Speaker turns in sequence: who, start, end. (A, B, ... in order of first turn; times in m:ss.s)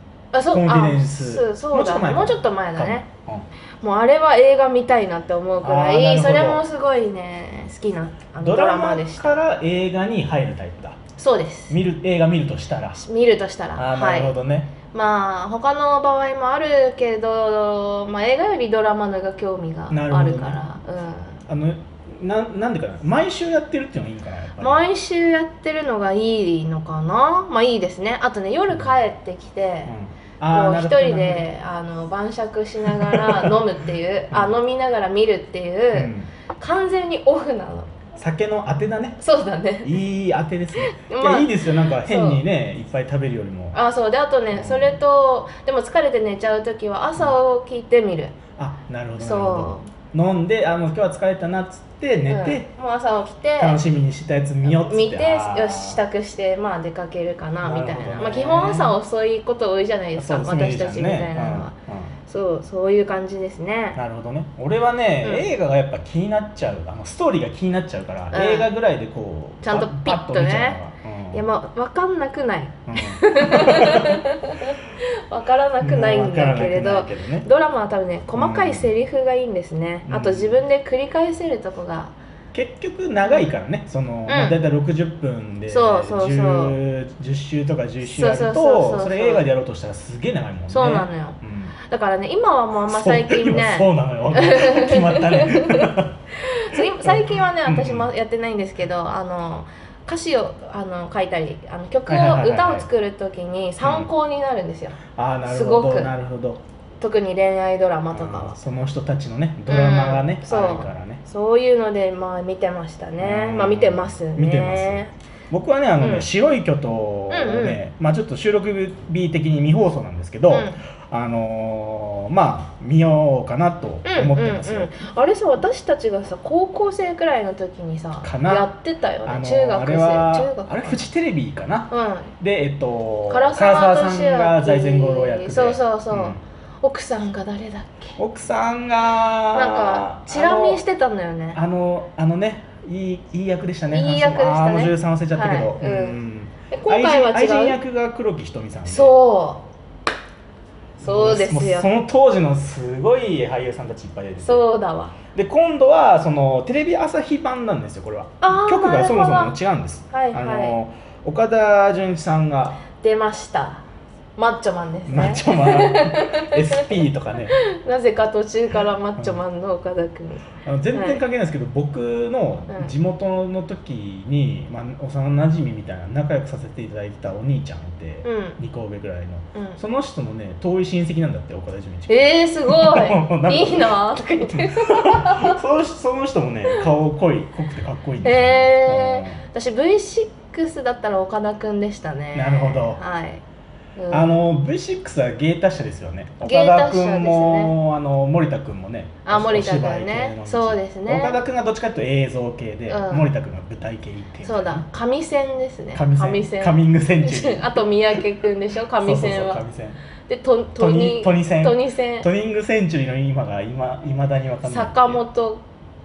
0:00.3-0:03.1 A
0:00.5-0:03.5 B
0:03.8-0:09.4 A
0:05.6-0:06.6 B
0:08.4-0:11.0 B
0:11.2-0:11.8 A
0:11.7-0:13.0 B
0:13.0-0:14.3 A
0:13.8-0:14.7 B
0:14.9-0:21.4 A
0:19.9-0:20.6 B
0:21.5-0:24.8 B
0:24.6-0:29.9 A
0:29.9-0:31.5 B
0:30.5-0:38.0 A
0:32.9-0:33.6 B
0:34.3-0:34.6 B
0:35.9-0:36.3 B
0:38.2-0:39.2 B
0:39.2-0:40.0 A
0:39.8-0:43.8 B
0:40.8-0:42.4 A
0:43.7-0:48.4 A
0:44.5-0:45.0 B
0:48.6-0:52.7 B
0:49.2-0:49.9 A
0:52.3-0:53.8 A
0:53.6-0:56.0 B
0:54.6-1:01.7 A
0:57.6-0:59.0 B
1:00.2-1:02.2 B
1:02.3-1:04.0 A
1:04.0-1:11.4 B
1:05.2-1:05.5 A
1:08.3-1:08.7 A
1:09.6-1:10.8 A
1:11.3-1:22.2 A
1:12.9-1:14.2 B
1:15.8-1:17.5 B
1:18.4-1:18.9 B
1:20.1-1:20.6 B
1:22.5-1:31.7 B
1:23.2-1:23.5 A
1:24.3-1:24.6 A
1:25.7-1:26.8 A
1:28.1-1:29.4 A
1:30.7-1:46.1 A
1:32.9-1:38.1 B
1:42.1-1:42.9 B
1:43.8-1:44.1 B
1:45.1-1:46.6 B
1:47.0-1:48.6 A
1:48.1-1:51.2 B
1:49.7-1:55.1 A
1:53.2-2:04.9 B
1:56.0-1:56.3 A
1:57.3-1:57.8 A
2:00.5-2:00.8 A
2:04.0-2:11.0 A
2:08.2-2:08.7 B
2:09.3-2:16.4 B
2:11.9-2:12.3 A
2:13.3-2:18.2 A
2:18.2-2:20.8 B
2:19.5-2:21.6 A
2:21.5-2:29.1 B
2:23.9-2:26.2 A
2:26.7-2:27.8 A
2:28.8-2:29.7 A
2:31.0-2:34.6 B
2:31.0-2:31.9 A
2:34.4-2:35.2 A
2:35.3-2:42.8 B
2:38.4-2:39.6 A
2:40.1-2:40.8 A
2:42.9-2:43.8 A
2:44.4-2:46.9 A
2:45.1-2:47.6 B
2:47.6-2:51.2 A
2:50.6-3:09.4 B
2:58.2-2:58.6 A
2:59.5-2:59.8 A
3:02.1-3:05.6 A
3:08.2-3:13.4 A
3:12.3-3:13.0 B
3:14.0-3:14.4 A
3:14.1-3:24.9 B
3:16.4-3:17.8 A
3:19.2-3:21.4 A
3:22.9-3:23.3 A
3:24.4-3:29.6 A
3:25.9-3:28.2 B
3:29.0-3:30.0 B
3:30.3-3:32.3 A
3:30.8-3:35.2 B
3:34.6-3:35.6 A